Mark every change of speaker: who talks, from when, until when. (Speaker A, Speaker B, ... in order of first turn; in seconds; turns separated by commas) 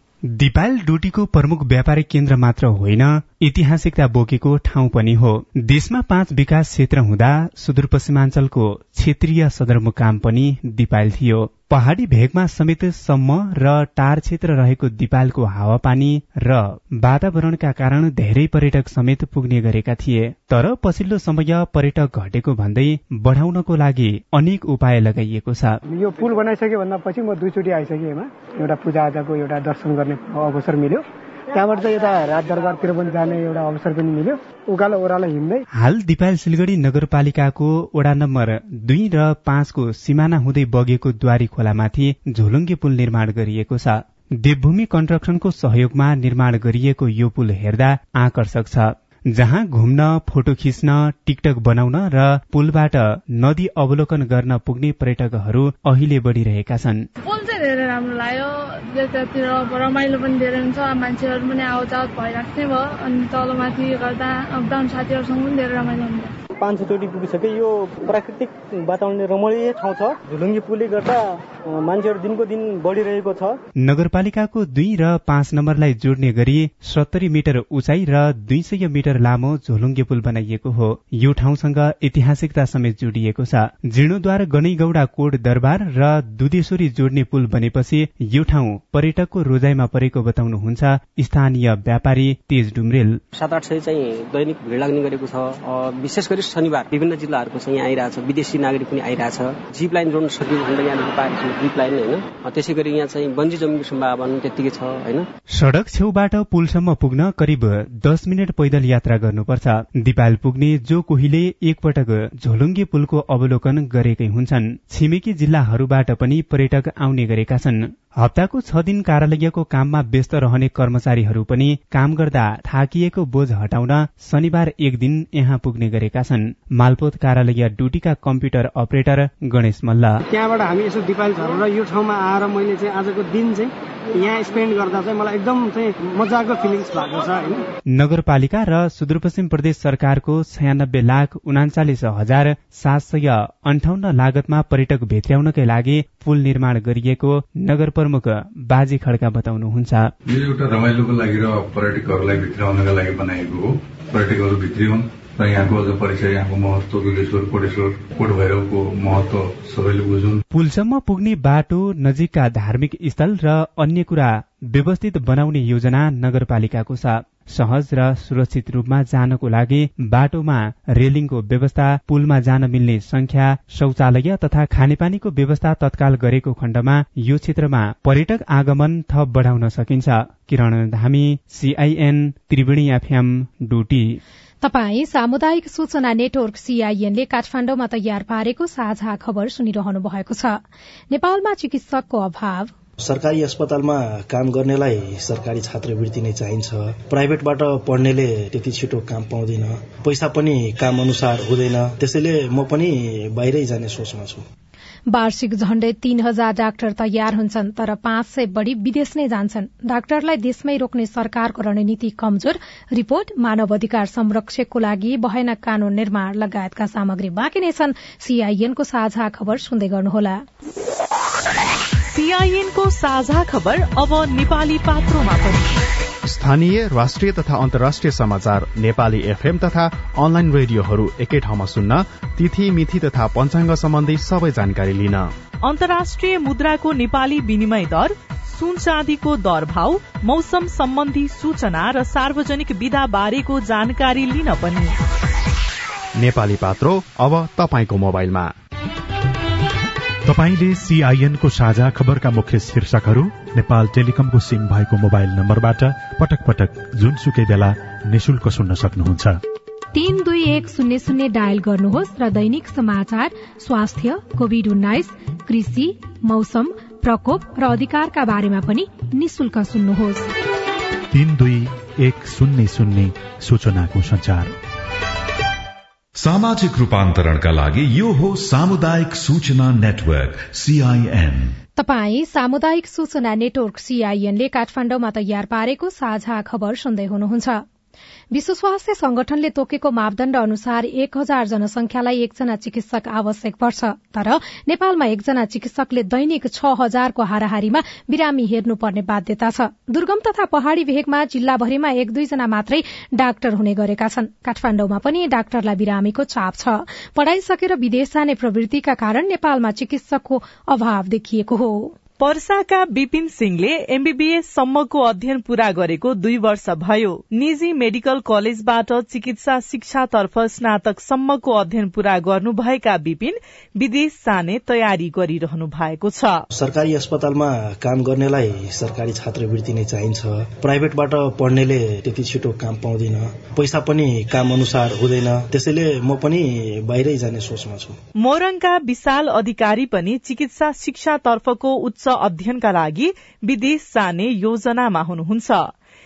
Speaker A: 0.3-25.7, Speaker B: 25.9-35.6, Speaker A: 35.7-57.1, Speaker C: 57.2-66.3, Speaker D: 66.6-73.6, Speaker A: 73.8-93.2, Speaker E: 93.3-105.3, Speaker A: 105.5-130.2, Speaker B: 130.3-137.6, Speaker A: 137.9-150.1, Speaker F: 150.3-160.4, Speaker A: 160.5-184.2, Speaker G: 184.6-192.7, Speaker H: 193.0-204.4, Speaker G: 205.1-220.4, Speaker I: 222.1-225.7, Speaker J: 226.2-235.3, Speaker I: 235.6-244.9, Speaker J: 246.2-248.5, Speaker K: 250.2-259.4, Speaker G: 259.9-270.3, Speaker K: 271.1-274.5, Speaker L: 276.2-281.6, Speaker G: 281.8-287.6, Speaker G: 288.3-311.9, Speaker I: 312.2-326.4, Speaker H: 326.5-338.0, Speaker I: 338.2-345.7